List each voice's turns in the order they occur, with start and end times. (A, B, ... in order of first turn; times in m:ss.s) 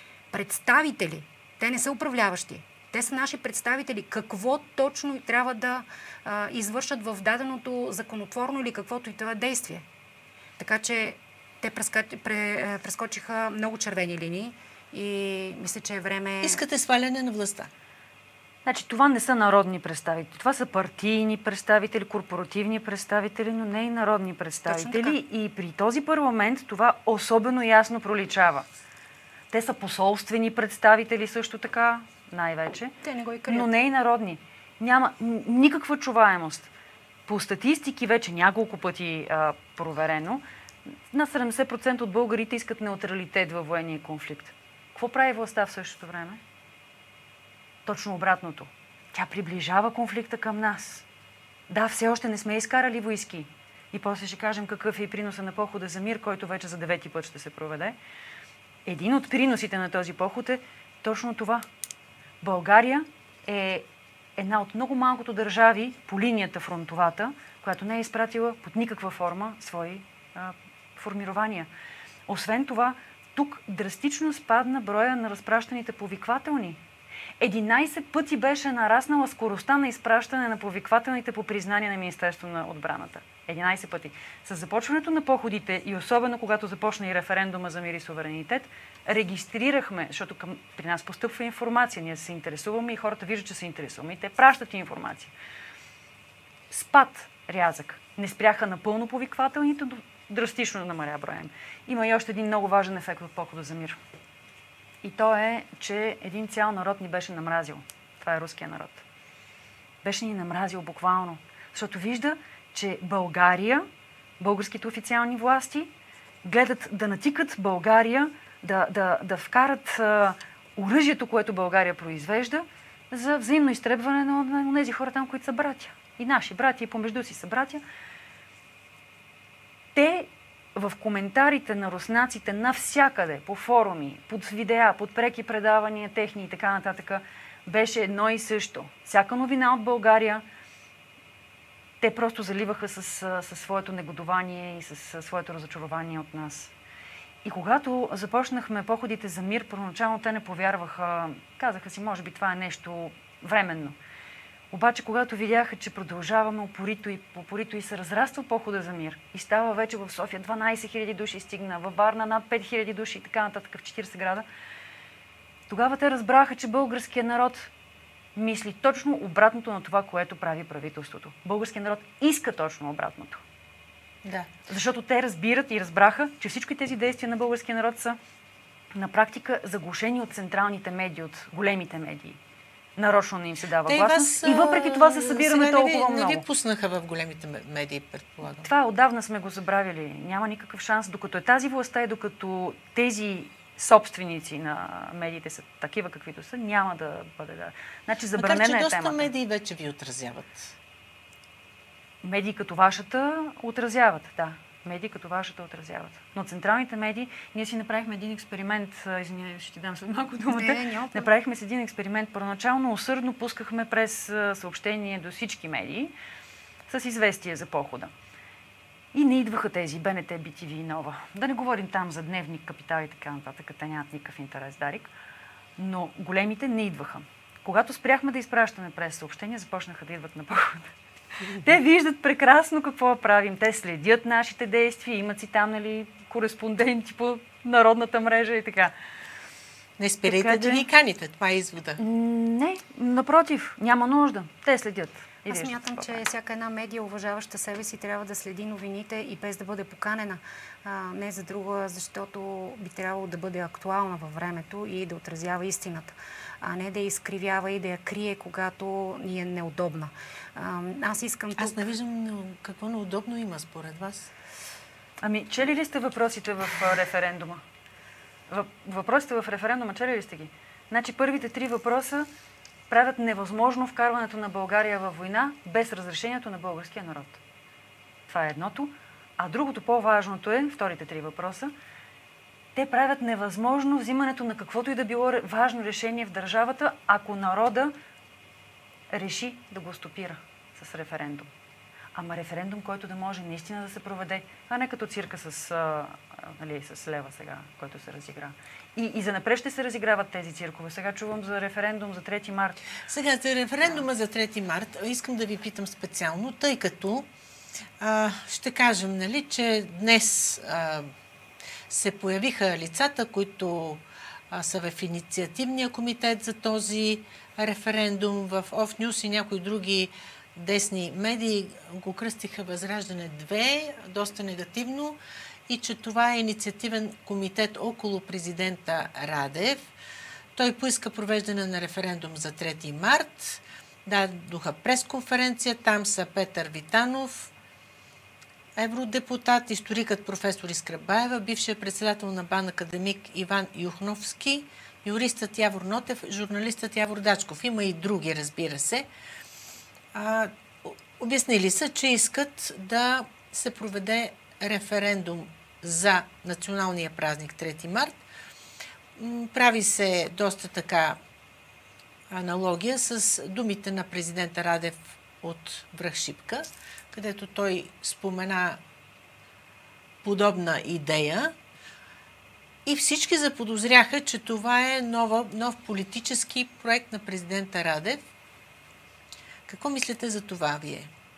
0:00.3-0:09.8 A
0:10.6-0:16.6 A
0:16.4-0:17.7 B
0:18.6-0:28.7 C
0:24.6-0:25.2 A
0:29.5-0:33.0 C
0:33.0-0:33.7 A
0:33.5-0:36.7 C
0:37.3-0:40.4 C
0:41.1-0:46.4 C
0:47.8-0:51.0 C
0:51.7-0:58.0 C
0:58.8-1:01.7 C
1:02.4-1:11.7 C
1:12.3-1:16.8 C
1:17.4-1:35.3 C
1:36.7-1:44.0 C
1:45.0-1:49.0 C
1:50.0-1:53.8 C
1:54.4-1:55.9 C
1:56.4-2:07.8 C
2:09.9-2:20.4 C
2:22.0-2:26.7 C
2:27.4-2:34.0 C
2:34.7-2:44.4 C
2:45.7-2:47.7 C
2:48.3-2:53.4 C
2:54.2-2:54.5 B
2:54.7-2:58.2 C
2:58.9-3:02.4 C
3:03.0-3:06.4 C
3:03.8-3:08.7 B
3:08.6-3:19.3 C
3:18.4-3:20.7 B
3:22.2-3:36.1 C
3:30.5-3:31.3 A
3:36.9-3:38.1 C
3:39.1-3:45.1 C
3:45.8-3:50.9 C
3:51.5-3:58.9 C
4:00.0-4:02.0 B
4:00.2-4:00.8 C
4:02.0-4:06.2 C
4:05.4-4:21.8 A
4:21.6-4:24.3 B
4:25.2-4:27.6 C
4:28.5-4:32.3 C
4:32.9-4:37.4 C
4:38.3-4:41.7 C
4:42.7-4:47.9 C
4:49.1-4:51.5 C
4:52.1-5:02.8 C
5:03.0-5:07.3 B
5:08.0-5:11.1 B
5:11.9-5:29.9 B
5:30.5-5:37.5 B
5:38.8-5:49.1 B
5:50.1-5:58.2 B
5:59.2-6:01.2 B
6:02.3-6:08.8 B
6:10.2-6:11.5 B
6:12.8-6:18.2 B
6:19.7-6:21.1 B